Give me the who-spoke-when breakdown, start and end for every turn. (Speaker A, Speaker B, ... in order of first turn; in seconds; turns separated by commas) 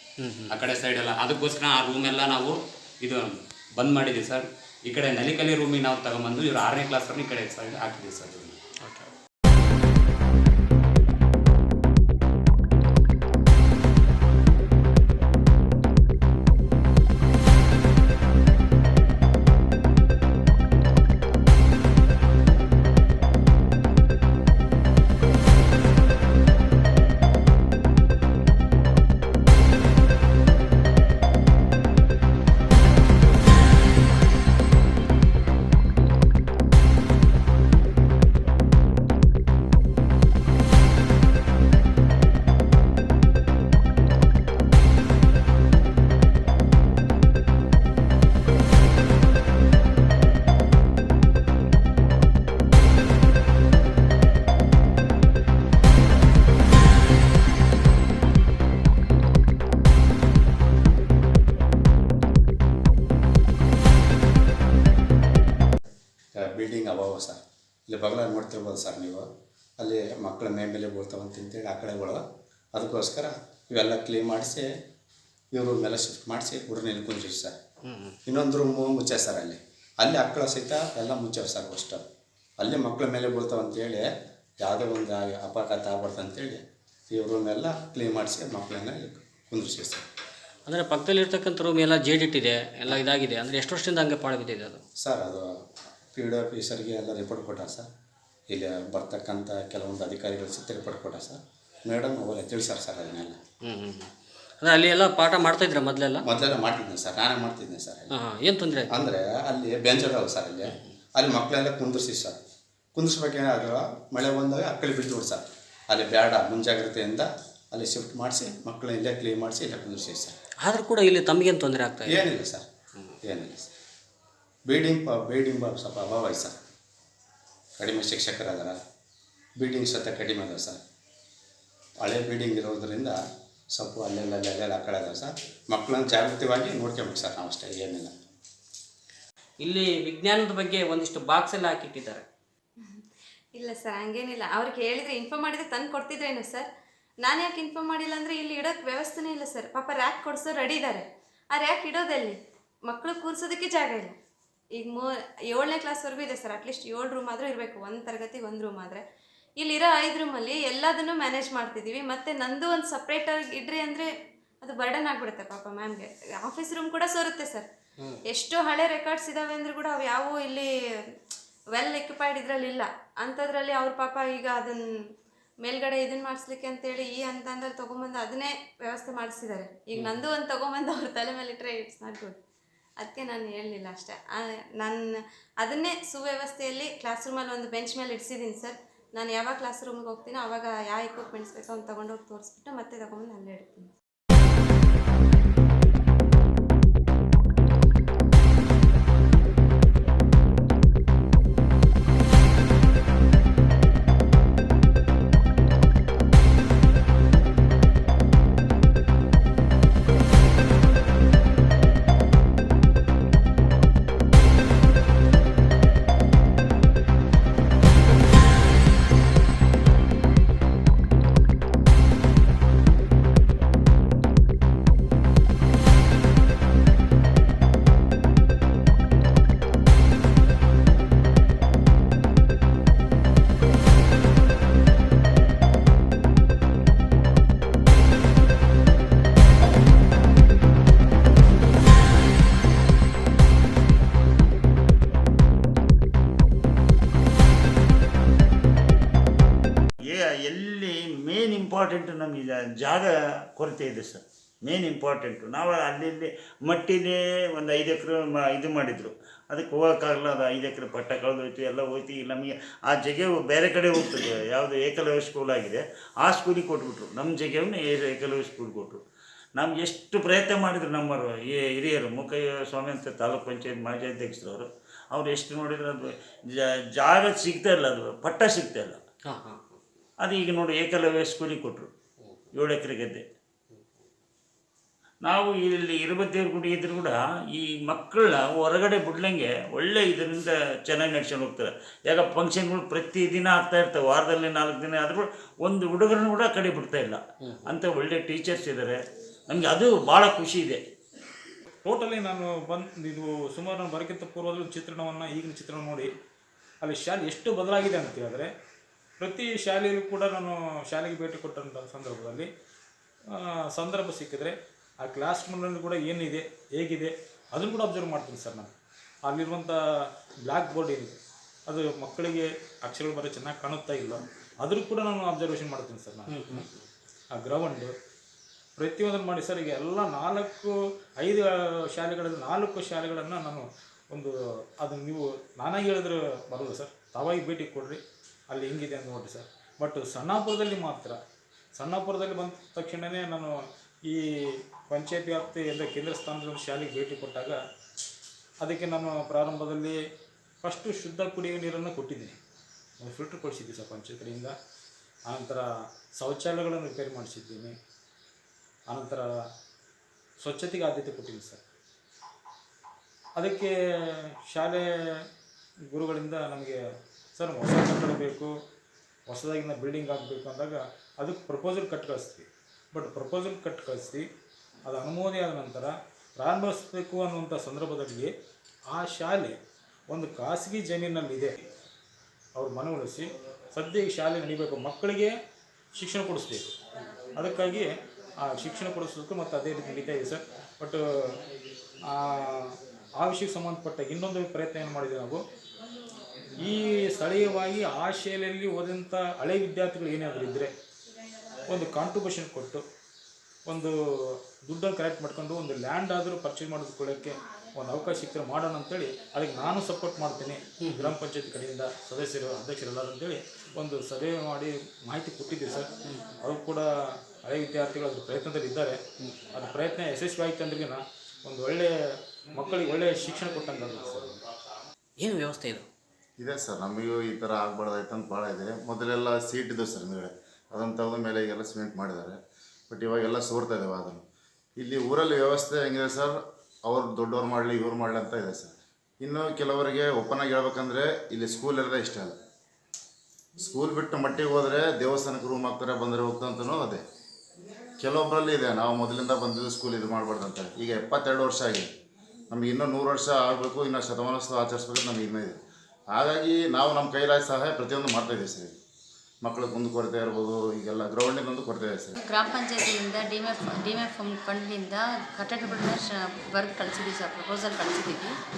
Speaker A: 0.2-0.5, Speaker B: 0.5-8.6, Speaker C: 66.3-69.3, Speaker C: 69.8-72.2, Speaker C: 72.7-74.7, Speaker C: 75.5-77.6, Speaker C: 78.2-82.1, Speaker C: 82.6-84.0, Speaker C: 84.6-90.0, Speaker A: 90.7-94.8, Speaker C: 95.0-95.5, Speaker C: 96.1-97.9, Speaker C: 98.5-103.4, Speaker A: 103.6-104.1, Speaker A: 104.6-106.2, Speaker C: 106.2-108.1, Speaker A: 108.1-108.9, Speaker C: 108.9-112.4, Speaker C: 112.9-120.3, Speaker A: 120.6-122.3, Speaker C: 122.0-122.7, Speaker C: 123.3-123.7, Speaker C: 124.7-126.5, Speaker C: 127.8-128.8, Speaker C: 129.6-130.8, Speaker C: 132.0-133.2, Speaker C: 133.7-138.1, Speaker A: 139.6-142.2, Speaker D: 142.8-146.7, Speaker D: 147.2-154.2, Speaker D: 154.7-159.0, Speaker D: 159.6-167.7, Speaker D: 168.3-171.2, Speaker D: 171.7-182.4, Speaker D: 183.0-193.9, Speaker E: 250.0-269.0, Speaker E: 269.6-276.0, Speaker E: 276.6-279.0, Speaker A: 279.2-279.8, Speaker E: 280.2-281.9, Speaker E: 282.5-283.2, Speaker E: 285.2-300.8, Speaker F: 301.8-306.1, Speaker F: 306.8-308.5, Speaker F: 309.2-312.5, Speaker F: 313.3-326.6, Speaker F: 327.3-327.9, Speaker F: 328.8-341.2, Speaker F: 341.7-343.5, Speaker F: 344.1-347.6, Speaker F: 348.6-350.0, Speaker F: 350.6-352.4, Speaker F: 353.0-354.5, Speaker F: 355.3-357.8, Speaker F: 358.9-359.3, Speaker F: 360.4-361.6, Speaker F: 363.4-363.7, Speaker F: 364.4-364.9, Speaker F: 365.9-366.8, Speaker F: 367.3-368.5, Speaker F: 369.3-374.3, Speaker F: 374.9-378.3, Speaker F: 378.9-379.6, Speaker F: 380.1-381.6, Speaker F: 382.5-385.3, Speaker F: 385.9-386.7, Speaker F: 387.4-391.4, Speaker F: 392.1-395.4, Speaker F: 396.6-400.7, Speaker F: 401.7-402.8, Speaker F: 403.6-419.0, Speaker F: 419.5-424.4, Speaker A: 425.2-425.9, Speaker G: 426.4-432.4, Speaker G: 432.9-434.2, Speaker G: 434.8-436.3, Speaker G: 436.9-442.3, Speaker G: 443.6-447.0, Speaker G: 448.0-451.9, Speaker G: 452.5-455.6, Speaker G: 456.1-458.8, Speaker G: 459.4-462.1, Speaker H: 462.2-468.3